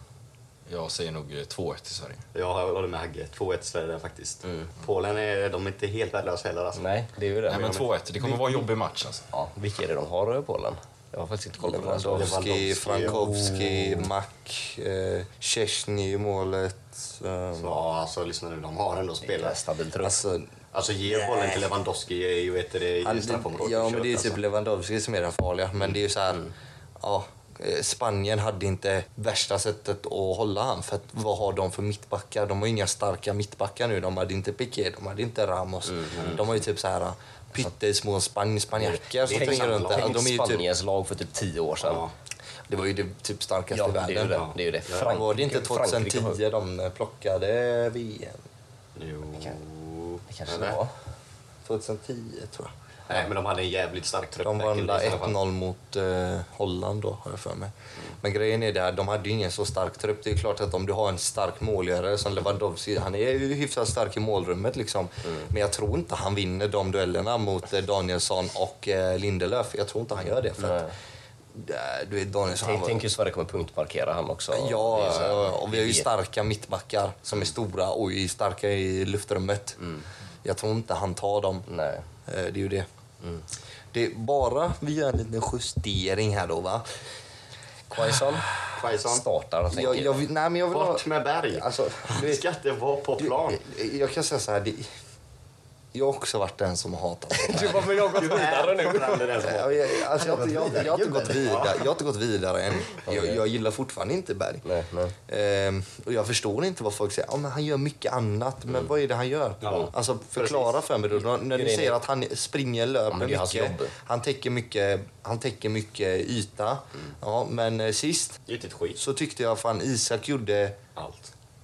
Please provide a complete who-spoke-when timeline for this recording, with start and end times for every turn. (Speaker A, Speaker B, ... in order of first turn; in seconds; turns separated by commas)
Speaker A: 0.7-2.2, Speaker B: 2.3-6.9, Speaker C: 6.8-8.7, Speaker A: 7.5-9.2, Speaker B: 7.5-7.9, Speaker C: 9.3-14.1, Speaker D: 11.6-17.9, Speaker B: 12.1-13.5, Speaker B: 17.6-19.6, Speaker C: 19.2-20.2, Speaker D: 20.0-20.5, Speaker B: 20.7-24.4, Speaker D: 21.1-21.6, Speaker D: 23.0-26.5, Speaker D: 27.0-40.6, Speaker C: 35.9-36.4, Speaker C: 38.8-42.1, Speaker B: 39.2-40.2, Speaker B: 41.8-42.1, Speaker D: 42.7-44.4, Speaker C: 43.7-46.4, Speaker B: 44.3-45.1, Speaker D: 45.0-48.4, Speaker B: 49.0-50.8, Speaker C: 50.3-50.9, Speaker D: 51.6-52.7, Speaker B: 53.1-55.4, Speaker D: 54.5-70.9, Speaker C: 70.6-70.9, Speaker D: 71.5-73.0, Speaker C: 72.6-76.1, Speaker D: 74.5-79.8, Speaker D: 80.4-81.7, Speaker C: 81.7-82.1, Speaker D: 82.3-82.9, Speaker D: 83.9-86.9, Speaker C: 87.9-90.2, Speaker B: 88.8-89.2, Speaker D: 89.7-92.4, Speaker B: 90.7-93.6, Speaker D: 93.5-94.9, Speaker D: 95.9-98.2, Speaker C: 97.3-101.7, Speaker B: 98.0-99.8, Speaker D: 99.4-104.7, Speaker C: 103.0-103.4, Speaker C: 104.6-105.2, Speaker D: 105.3-118.4, Speaker B: 109.6-110.7, Speaker C: 111.2-112.0, Speaker C: 113.1-113.9, Speaker B: 118.5-119.0, Speaker D: 119.0-120.8, Speaker B: 121.0-121.3